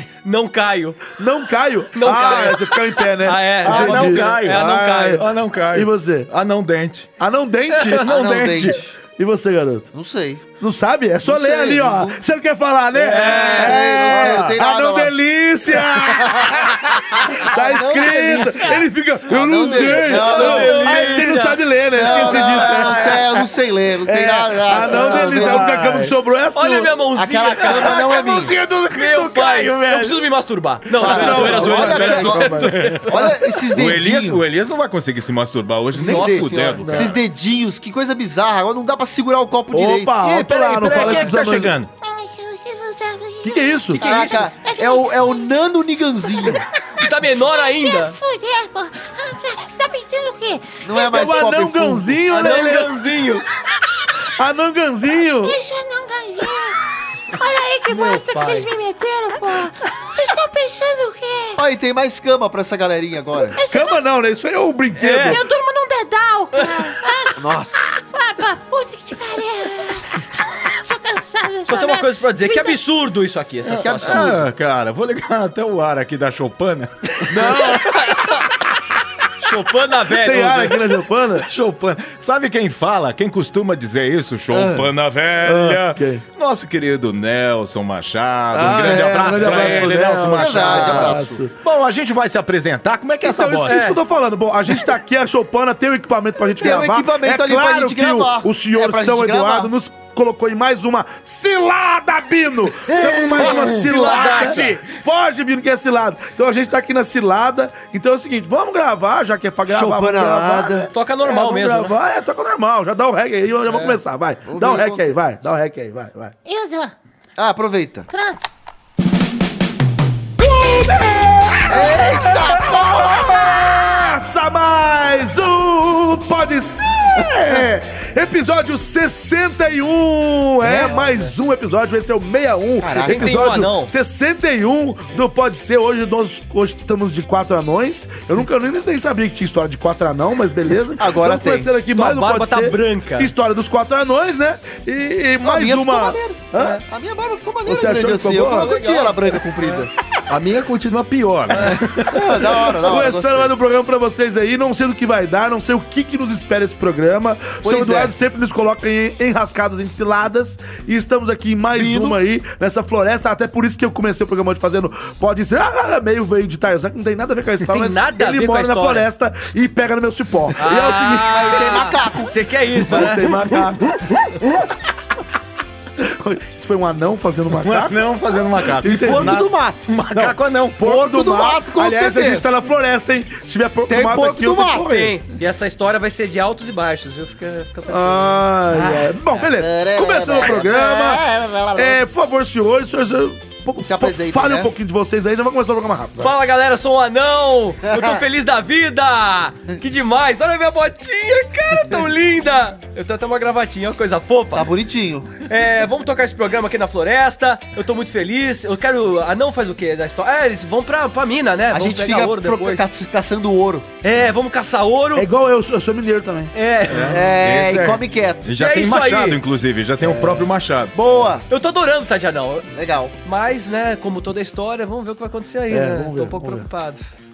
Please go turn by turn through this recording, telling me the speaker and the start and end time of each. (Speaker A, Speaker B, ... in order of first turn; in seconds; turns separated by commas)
Speaker A: 0.2-1.1, Speaker B: 1.1-6.3, Speaker A: 1.9-5.2, Speaker C: 3.6-7.1, Speaker B: 7.2-8.0, Speaker C: 7.8-8.8, Speaker D: 8.0-9.0, Speaker B: 9.1-9.9, Speaker D: 9.9-10.6, Speaker B: 10.6-23.3, Speaker D: 11.2-12.2, Speaker A: 13.0-13.8, Speaker D: 13.5-15.2, Speaker C: 14.0-14.6, Speaker C: 16.2-16.9, Speaker D: 16.2-16.7, Speaker D: 17.5-25.8, Speaker A: 19.9-22.5, Speaker C: 22.7-23.4, Speaker B: 24.0-27.0, Speaker C: 24.9-26.1, Speaker A: 26.5-33.4, Speaker D: 27.1-28.5, Speaker C: 27.6-30.2, Speaker D: 31.0-34.4, Speaker C: 31.0-37.2, Speaker B: 31.0-32.9, Speaker D: 35.9-40.3, Speaker A: 36.0-37.0, Speaker B: 36.8-37.1, Speaker B: 39.7-41.8, Speaker C: 40.2-41.9, Speaker A: 40.9-41.3, Speaker E: 42.0-45.4, Speaker B: 43.4-44.0, Speaker A: 43.9-44.4, Speaker D: 44.0-46.6, Speaker E: 46.4-51.4, Speaker A: 47.0-48.2, Speaker D: 50.8-52.3, Speaker B: 51.0-52.9, Speaker A: 52.3-53.4, Speaker B: 54.4-55.5, Speaker E: 55.4-56.8, Speaker E: 57.3-61.6, Speaker A: 57.9-58.7, Speaker D: 61.6-63.6, Speaker E: 63.5-64.0, Speaker B: 63.6-65.4, Speaker A: 65.0-65.4, Speaker E: 65.3-72.8, Speaker D: 67.4-67.9, Speaker A: 71.7-74.3, Speaker C: 73.6-78.0, Speaker D: 73.8-74.5, Speaker B: 77.3-78.0, Speaker A: 77.3-78.4, Speaker A: 79.4-80.8, Speaker B: 80.1-81.5, Speaker C: 81.5-93.8, Speaker D: 84.5-84.9, Speaker B: 85.4-86.2, Speaker B: 88.5-91.5, Speaker A: 89.1-89.9, Speaker D: 89.4-89.8, Speaker D: 90.3-91.4, Speaker B: 93.2-116.3, Speaker A: 93.7-94.0, Speaker D: 96.6-99.7, Speaker D: 102.9-103.8, Speaker A: 103.4-104.8, Speaker C: 104.1-104.8, Speaker D: 109.7-110.9, Speaker A: 110.9-111.9, Speaker A: 113.7-114.0, Speaker D: 114.5-115.2, Speaker E: 116.4-116.9, Speaker D: 117.4-118.1, Speaker E: 118.1-118.4, Speaker B: 120.5-146.8, Speaker D: 121.7-123.5, Speaker D: 130.6-131.1, Speaker D: 132.8-133.5, Speaker A: 133.0-133.9, Speaker D: 141.0-141.7, Speaker A: 141.9-143.3, Speaker D: 145.4-149.9, Speaker B: 147.7-148.8, Speaker A: 148.5-149.8, Speaker C: 150.3-152.6, Speaker D: 151.5-153.5, Speaker B: 152.7-171.6, Speaker D: 157.6-158.1, Speaker D: 161.7-162.2, Speaker A: 167.6-169.1, Speaker A: 170.6-173.5, Speaker D: 171.3-172.4, Speaker B: 172.7-173.8, Speaker C: 173.4-174.7, Speaker B: 176.0-179.5, Speaker C: 177.5-180.8, Speaker D: 178.8-179.9, Speaker B: 180.1-185.2, Speaker D: 180.8-182.5, Speaker D: 183.9-184.9, Speaker A: 184.8-188.4, Speaker B: 187.9-196.3, Speaker D: 188.7-192.0, Speaker D: 193.8-194.7, Speaker A: 196.2-204.7, Speaker D: 197.9-198.2, Speaker D: 204.5-205.3, Speaker A: 205.5-212.8, Speaker D: 211.7-213.9, Speaker A: 214.0-215.3, Speaker B: 215.1-216.5, Speaker A: 216.5-217.2, Speaker C: 216.9-220.9, Speaker D: 217.1-218.5, Speaker A: 218.6-219.4, Speaker B: 220.0-220.5, Speaker D: 220.9-221.4, Speaker A: 221.5-222.7, Speaker D: 222.7-223.1, Speaker A: 223.2-227.0, Speaker B: 225.7-226.7